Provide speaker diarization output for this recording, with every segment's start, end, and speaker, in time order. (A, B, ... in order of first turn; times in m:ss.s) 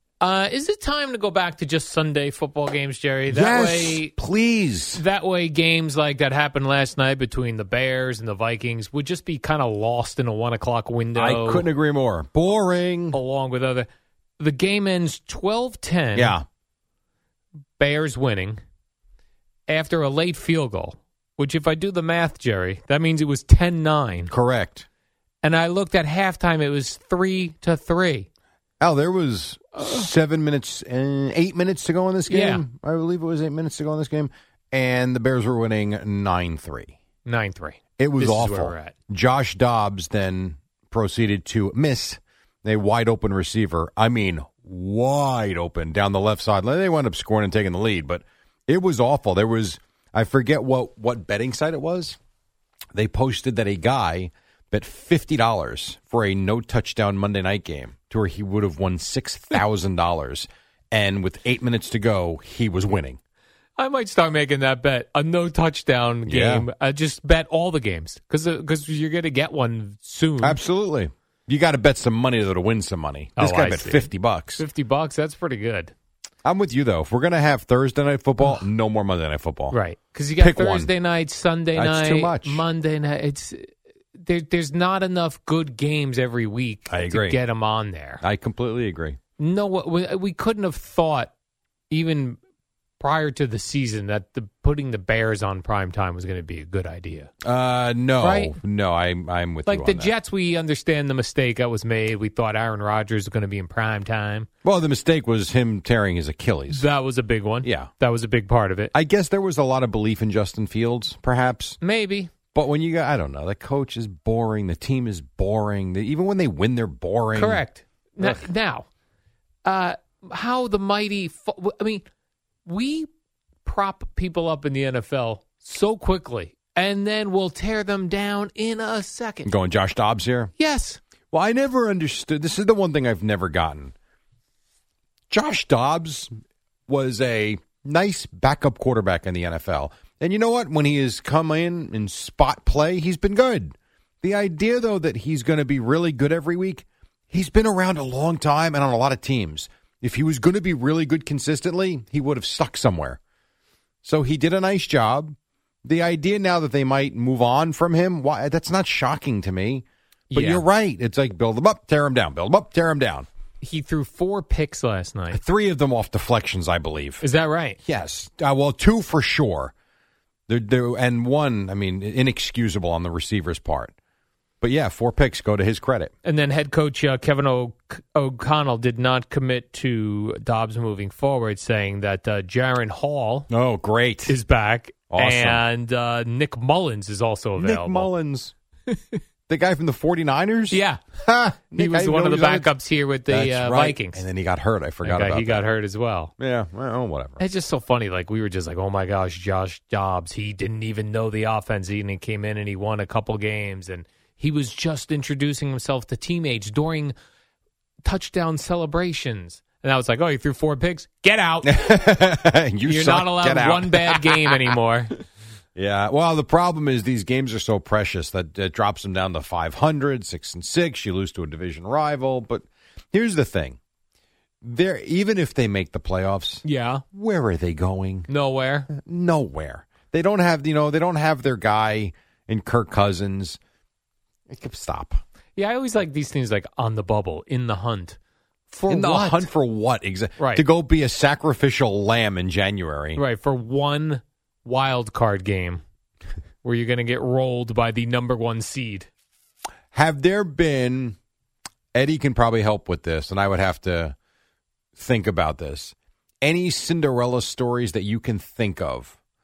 0:00.2-0:04.1 A
0:03.3-0:05.0 B
0:05.0-0:11.7 A
0:11.2-0:13.2 B
0:13.1-0:13.9 A
0:14.4-0:16.4 A
0:16.2-0:16.4 B
0:17.8-0:18.6 A
0:19.7-0:24.3 A
0:24.3-0:24.9 B
0:25.4-0:28.3 A
0:28.8-0:37.0 B
0:29.8-0:30.1 A
0:32.3-0:32.6 A
0:37.3-0:38.9 A
0:38.0-0:52.2 B
0:52.9-1:03.2 B
1:03.8-1:10.6 A
1:06.3-1:06.7 B
1:10.4-1:14.6 B
1:13.4-1:15.9 A
1:16.4-1:19.8 B
1:19.7-1:28.2 A
1:20.4-1:20.9 B
1:21.8-1:22.6 B
1:26.9-1:27.4 B
1:28.2-1:29.2 B
1:29.4-1:31.3 A
1:31.9-1:32.4 A
1:33.0-1:37.3 A
1:37.4-1:40.1 B
1:38.2-1:38.6 A
1:39.7-1:44.5 A
1:44.6-1:46.8 B
1:46.7-1:48.9 A
1:47.6-1:47.9 B
1:48.9-1:51.8 B
1:51.8-1:52.3 A
1:52.5-1:57.6 B
1:57.4-1:58.9 A
1:59.6-2:02.0 A
2:02.7-2:03.1 A
2:03.6-2:09.5 A
2:09.5-2:10.5 B
2:10.6-2:11.0 A
2:11.3-2:13.9 B
2:15.3-2:16.3 B
2:16.9-2:33.2 B
2:34.0-2:43.3 B
2:40.3-2:40.6 A
2:43.6-2:45.4 A
2:45.3-2:47.2 B
2:47.2-2:47.8 A
2:47.8-2:49.7 B
2:50.5-2:53.9 B
2:54.6-2:56.1 B
2:56.2-3:03.5 A
3:03.5-3:04.4 B
3:04.3-3:08.1 A
3:05.1-3:05.6 B
3:07.6-3:08.5 B
3:08.9-3:09.2 A
3:09.5-3:12.7 B
3:10.7-3:11.0 A
3:11.8-3:14.2 A
3:13.3-3:15.6 B
3:15.0-3:16.3 A
3:16.4-3:17.4 B
3:17.4-3:27.2 A
3:28.0-3:31.9 A
3:31.6-3:34.6 B
3:32.9-3:35.2 A
3:35.8-3:43.8 B
3:44.6-3:48.3 B
3:46.6-3:47.0 A
3:48.3-3:48.9 A
3:48.9-3:53.6 B
3:54.5-3:55.2 B
3:55.6-3:58.2 A
3:58.7-3:59.5 A
3:58.9-4:03.2 B
4:00.4-4:00.6 A
4:03.2-4:05.8 A
4:06.6-4:09.1 A
4:09.9-4:11.2 B
4:11.9-4:14.2 B
4:15.0-4:19.2 B